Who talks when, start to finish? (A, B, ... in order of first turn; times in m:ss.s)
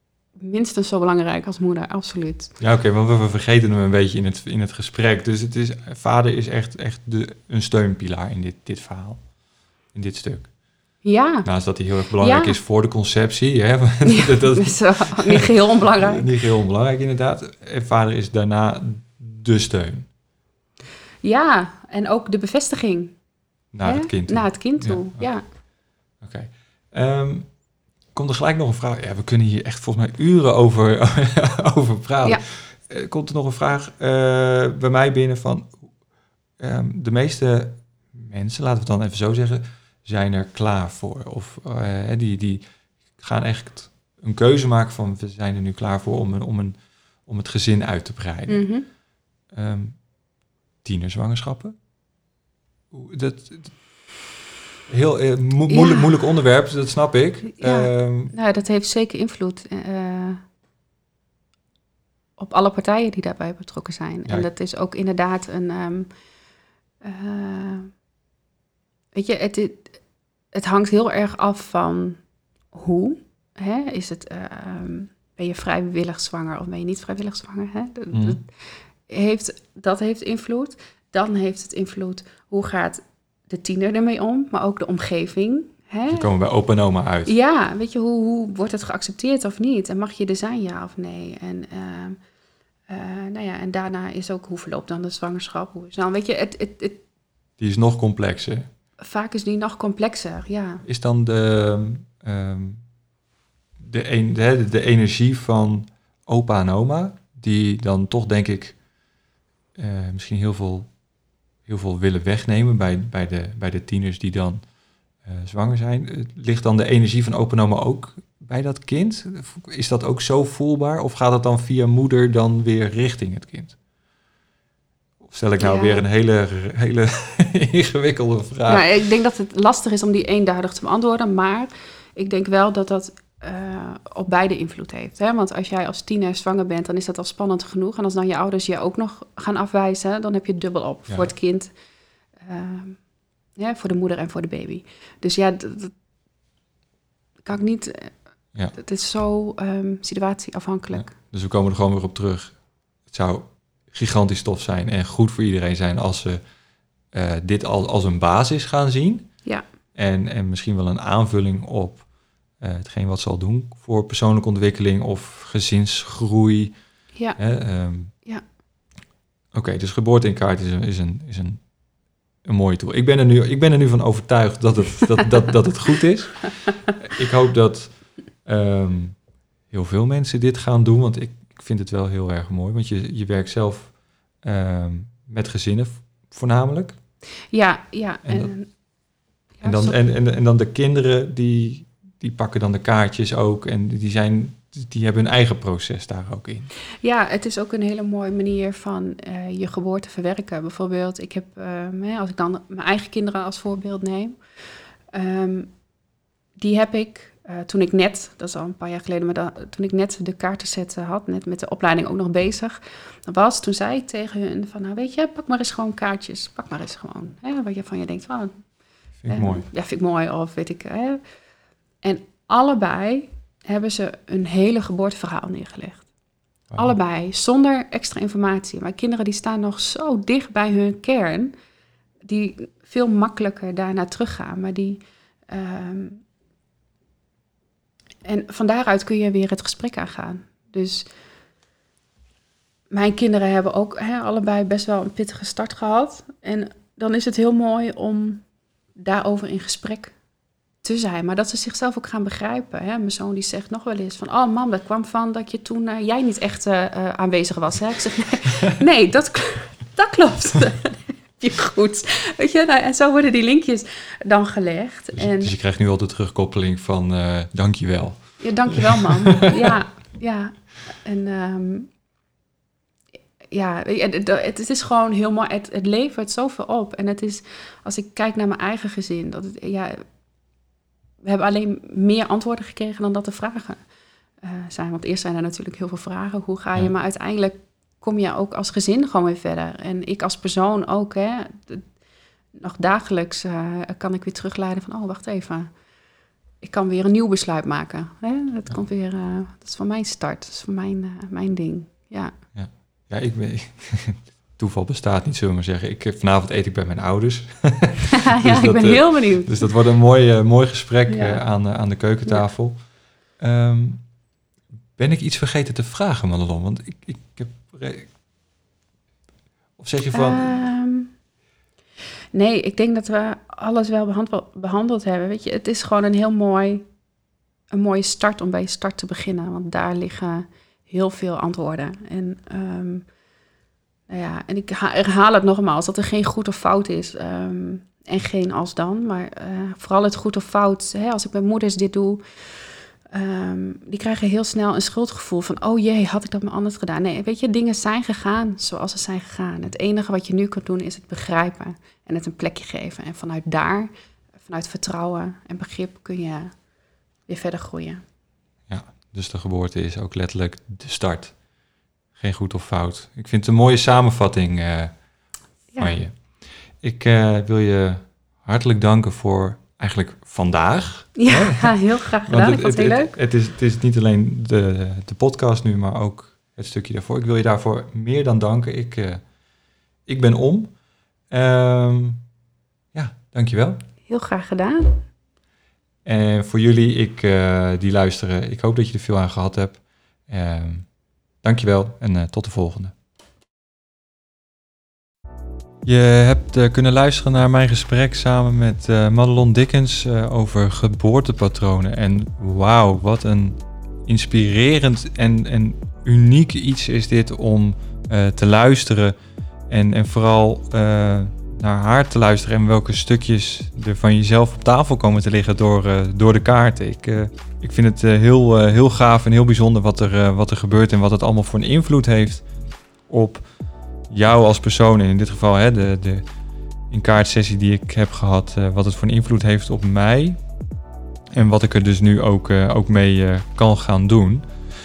0:00.4-0:02.6 A
0:02.6-0:09.2 B
0:09.9-0:10.5 B
0:11.0-0:11.5 A
0:11.4-0:20.1 B
0:12.2-0:12.6 A
0:14.0-0:16.3 A
0:21.2-0:23.2 A
0:23.7-0:25.3 B
0:23.8-0:25.4 A
0:26.2-0:27.5 B
0:28.1-0:35.9 B
0:36.6-0:42.6 B
0:43.2-0:48.6 B
0:48.5-0:48.9 A
0:49.5-0:50.0 B
0:50.8-0:51.7 B
0:52.9-0:53.8 B
0:54.9-0:58.3 B
0:55.7-0:56.1 A
0:57.6-1:00.4 A
1:02.4-1:06.1 A
1:07.0-1:07.9 A
1:09.1-1:10.0 A
1:10.5-1:12.2 A
1:12.7-1:18.5 A
1:18.1-1:18.4 B
1:19.1-1:26.3 A
1:26.1-1:27.3 B
1:27.2-1:32.2 A
1:32.9-1:37.0 A
1:37.6-1:38.7 B
1:39.0-1:40.8 A
1:40.8-1:42.8 B
1:43.8-1:48.8 B
1:49.8-1:50.9 B
1:51.6-1:54.6 B
1:55.2-2:03.8 B
2:05.2-2:08.9 B
2:05.6-2:06.0 A
2:08.7-2:21.7 A
2:22.4-2:23.0 A
2:23.6-2:25.9 A
2:27.4-2:28.1 A
2:28.7-2:31.1 A
2:30.9-2:36.4 B
2:37.1-2:39.3 B
2:39.9-2:42.0 B
2:42.6-2:46.7 B
2:47.4-2:48.1 B
2:49.5-2:51.6 B
2:52.4-2:59.2 B
2:59.7-3:07.0 B
3:07.5-3:08.7 A
3:08.2-3:08.5 B
3:09.6-3:10.0 A
3:09.6-3:16.7 B
3:17.0-3:24.4 A
3:25.1-3:25.7 A
3:26.6-3:38.6 A
3:39.2-3:39.6 B
3:39.3-3:41.2 A
3:42.0-3:46.1 A
3:46.7-3:47.0 B
3:46.8-3:51.5 A
3:52.2-3:56.2 A
3:58.2-4:01.0 A
4:02.9-4:08.4 A
4:09.0-4:10.1 A
4:10.8-4:25.5 A
4:25.1-4:29.7 B
4:28.4-4:31.9 A
4:33.5-4:40.0 A
4:41.2-4:43.8 A
4:44.4-4:51.9 A
4:52.5-4:55.7 A
4:56.6-5:02.3 A
5:02.5-5:12.8 B
5:08.1-5:09.6 A
5:11.1-5:11.4 A
5:13.4-5:14.0 B
5:15.0-5:18.1 B
5:19.8-5:20.6 B
5:20.1-5:21.1 A
5:22.3-5:26.8 A
5:27.7-5:33.1 A
5:34.1-5:42.2 A
5:43.1-5:56.5 A
5:57.3-5:58.0 A
5:58.7-6:01.3 B
6:02.1-6:05.0 B
6:05.8-6:06.2 B
6:06.8-6:19.2 B
6:11.2-6:13.2 A
6:20.1-6:20.7 B
6:21.3-6:22.2 B
6:22.9-6:23.8 B
6:24.1-6:25.0 A
6:26.0-6:30.9 B
6:31.4-6:32.9 B
6:35.8-6:49.1 B
6:49.7-7:02.4 B
7:03.1-7:03.4 B
7:04.1-7:06.2 B
7:06.9-7:10.4 B
7:11.4-7:14.4 B